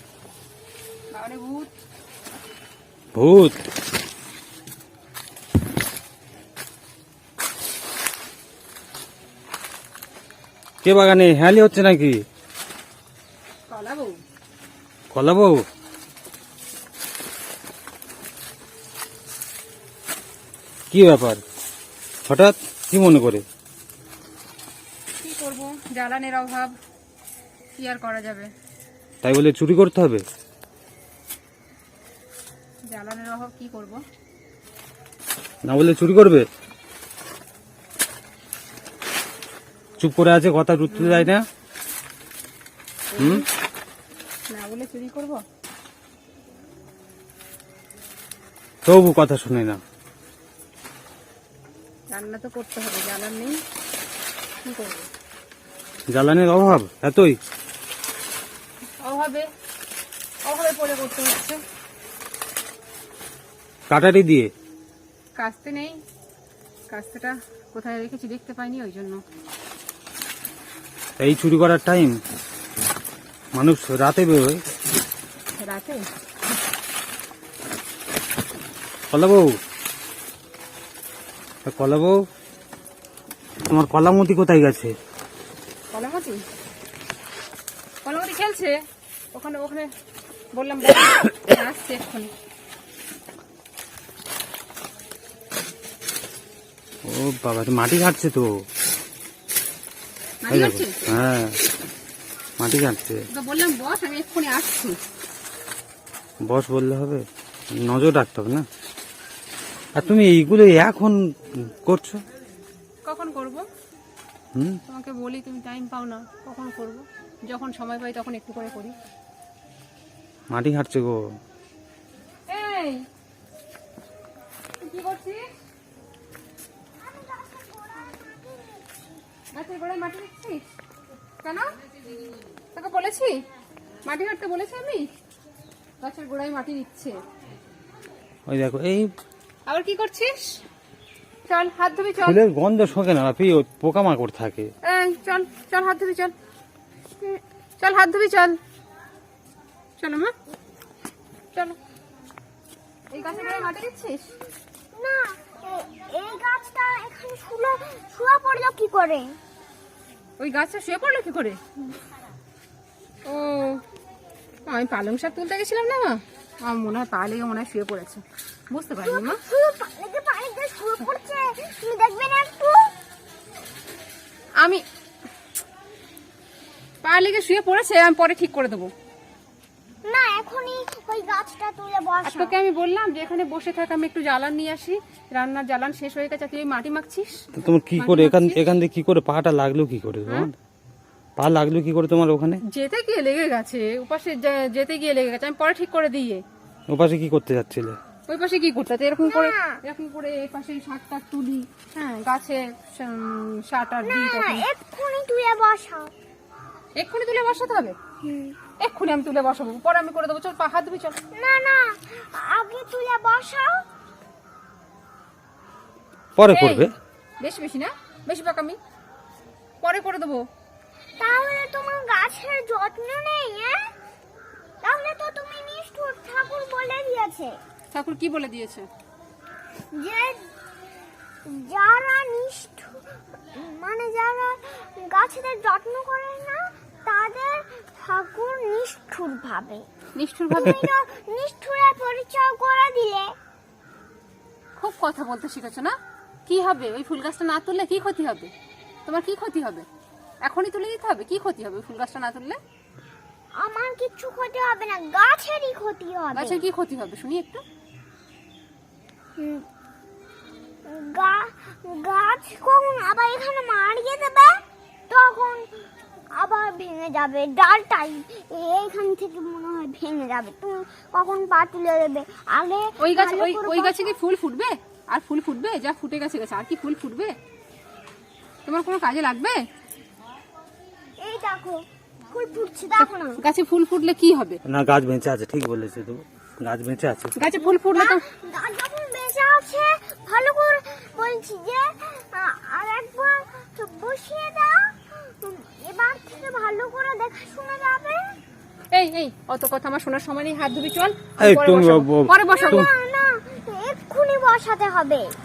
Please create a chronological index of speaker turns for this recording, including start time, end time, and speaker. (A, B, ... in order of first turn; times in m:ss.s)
0:01.1-0:01.7 A
0:03.1-0:03.6 B
0:10.8-0:12.2 B
0:13.7-0:14.2 A
0:15.1-0:15.6 B
0:20.9-0:21.4 B
0:22.3-0:23.4 B
0:25.2-0:26.7 A
0:27.8-0:28.5 A
0:29.2-0:30.2 B
0:32.9-0:34.0 A
0:35.7-0:36.4 B
0:40.0-0:41.4 B
0:40.9-0:41.3 A
0:43.1-0:43.4 A
0:43.2-0:43.4 B
0:44.5-0:45.4 A
0:48.8-0:49.8 B
0:52.1-0:53.6 A
0:54.6-0:55.0 A
0:56.1-0:57.4 B
0:59.0-0:59.5 A
1:00.4-1:01.6 A
1:03.9-1:04.5 B
1:05.4-1:06.0 A
1:06.9-1:09.2 A
1:11.2-1:12.2 B
1:13.5-1:14.6 B
1:15.6-1:16.0 A
1:19.1-1:19.6 B
1:21.6-1:22.2 B
1:23.7-1:24.9 B
1:25.9-1:26.4 A
1:28.0-1:28.8 A
1:29.3-1:29.9 A
1:30.5-1:32.3 A
1:37.0-1:38.6 B
1:40.4-1:41.0 A
1:40.5-1:41.6 B
1:42.6-1:43.3 B
1:43.3-1:45.0 A
1:46.4-1:47.2 B
1:47.8-1:48.7 B
1:50.0-1:52.2 B
1:53.0-1:53.6 A
1:54.5-1:54.8 B
1:54.9-1:59.0 A
2:00.5-2:01.2 B
2:02.5-2:03.0 A
2:04.8-2:05.4 A
2:07.0-2:08.9 C
2:09.5-2:10.7 A
2:11.4-2:11.7 A
2:12.7-2:13.4 A
2:14.0-2:15.1 A
2:16.0-2:17.2 A
2:18.5-2:19.1 B
2:19.7-2:20.6 A
2:21.5-2:22.4 A
2:22.2-2:24.7 B
2:24.8-2:26.3 A
2:27.8-2:28.6 A
2:30.0-2:30.3 A
2:33.1-2:34.3 A
2:33.2-2:33.8 C
2:34.9-2:39.4 C
2:40.4-2:41.6 A
2:43.2-2:43.8 A
2:44.7-2:49.4 A
2:49.0-2:52.9 C
2:57.0-2:58.9 A
3:00.1-3:02.5 C
3:02.2-3:08.6 A
3:07.6-3:10.5 B
3:11.4-3:12.6 B
3:12.7-3:16.4 A
3:16.9-3:18.0 B
3:18.3-3:24.7 A
3:19.2-3:19.8 C
3:24.0-3:26.1 C
3:27.0-3:28.0 A
3:28.2-3:28.6 C
3:28.8-3:31.2 A
3:31.3-3:33.8 C
3:36.4-3:36.9 B
3:36.5-3:36.9 A
3:37.4-3:38.8 A
3:39.8-3:40.5 A
3:41.2-3:43.9 C
3:44.8-3:47.6 C
3:47.9-3:48.9 A
3:49.9-3:50.4 C
3:51.4-3:59.8 C
4:00.2-4:00.8 A
4:00.5-4:03.3 C
4:04.8-4:05.9 A
4:06.5-4:08.5 A
4:09.1-4:09.9 A
4:10.4-4:12.6 A
4:13.6-4:16.6 C
4:16.3-4:17.6 A
4:19.4-4:19.6 C
4:20.9-4:25.8 C
4:26.4-4:34.1 C
4:33.0-4:37.4 A
4:38.7-4:39.6 A
4:41.2-4:43.4 C
4:43.0-4:44.6 A
4:44.7-4:47.3 B
4:47.4-4:48.2 A
4:47.6-4:58.4 C
4:58.9-5:02.9 A
5:01.4-5:02.9 B
5:02.4-5:05.3 C